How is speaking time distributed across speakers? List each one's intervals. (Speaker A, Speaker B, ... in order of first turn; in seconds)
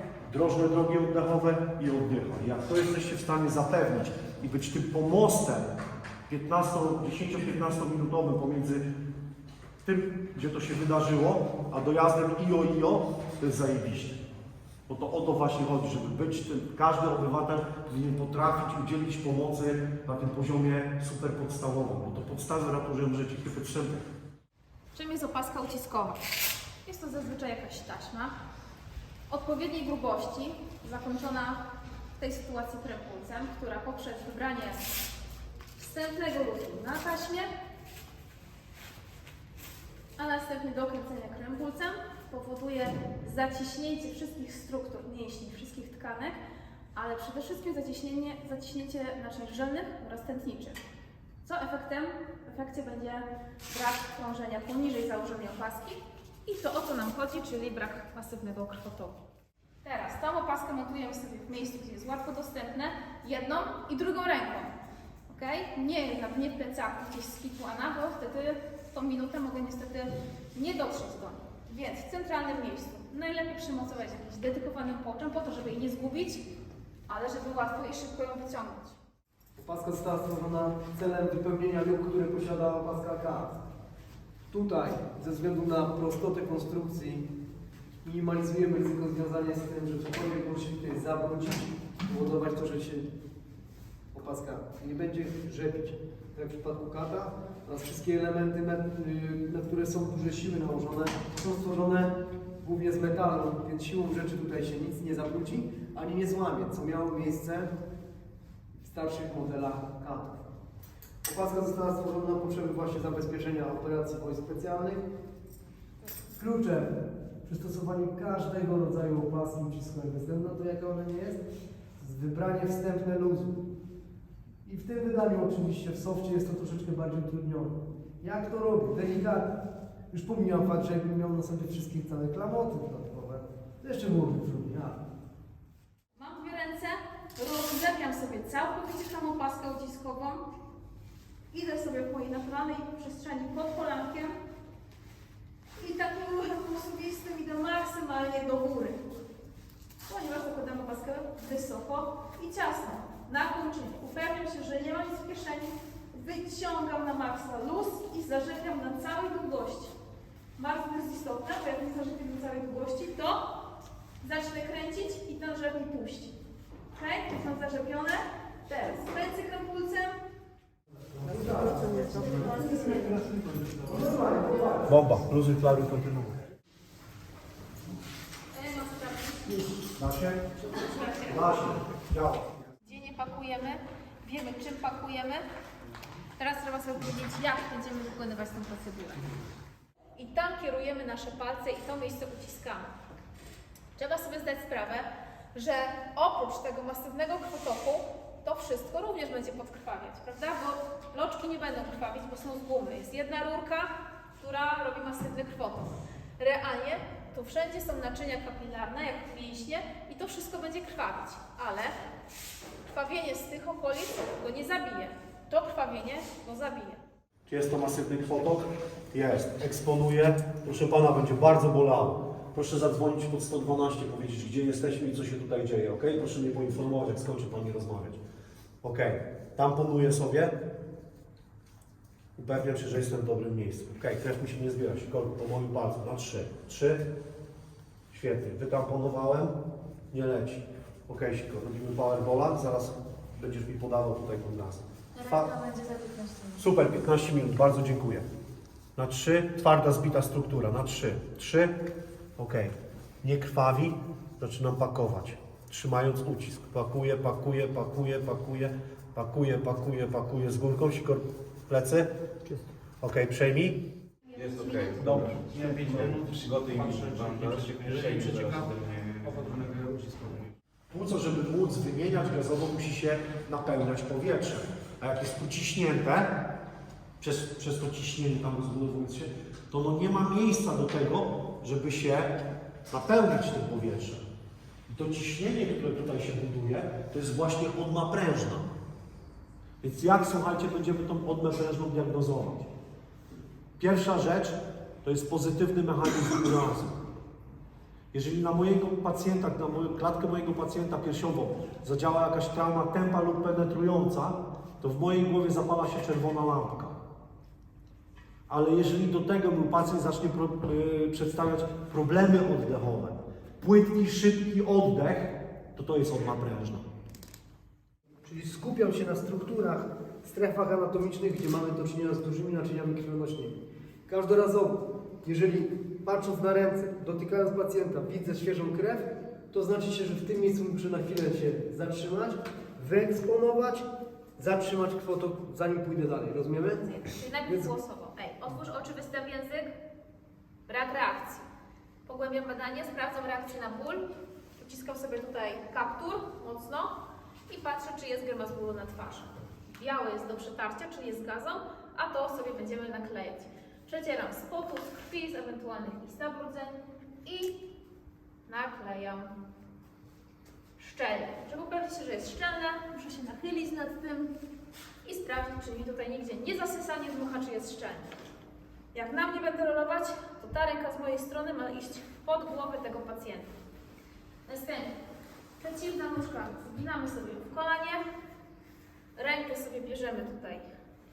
Speaker A: 0.3-5.8, 6.3-8.8, 9.8-14.2, 14.9-24.0, 174.8-176.4, 179.8-180.5, 181.2-182.4, 217.5-228.2, 228.8-230.6, 232.4-237.1, 238.1-239.6, 240.1-245.5, 246.6-248.2, 248.9-251.8, 252.4-262.1, 263.0-263.8, 270.9-276.4, 277.2-284.2, 284.9-288.7, 289.8-292.7, 293.8-296.9, 298.1-307.0, 308.5-316.8
Speaker B: 24.9-26.2, 26.8-28.3, 29.3-31.6, 32.2-34.9, 35.8-37.5, 40.2-46.4, 47.0-50.8, 51.4-59.2, 59.8-64.7, 65.3-76.4, 77.1-79.0, 136.1-140.5, 141.5-144.3, 145.8-149.0, 150.1-159.9, 160.6-163.5, 164.2-166.4, 166.9-170.2, 172.1-172.8, 178.5-179.6, 180.7-181.5, 182.8-185.4, 186.4-189.3, 190.2-192.9, 193.9-211.9, 212.8-217.0, 245.2-246.6, 264.7-264.9, 336.8-339.7, 340.7-341.5, 342.1-357.6, 358.5-359.3, 360.8-364.3, 365.0-368.1, 368.9-373.5, 374.4-374.9, 375.6-378.0, 379.1-380.7
Speaker C: 79.6-83.6, 84.5-87.3, 88.0-93.1, 94.1-107.7, 108.8-110.4, 111.2-115.0, 116.3-121.4, 122.0-123.6, 124.6-135.0, 171.1-174.9, 318.2-336.9, 337.4-337.7
Speaker D: 264.3-270.5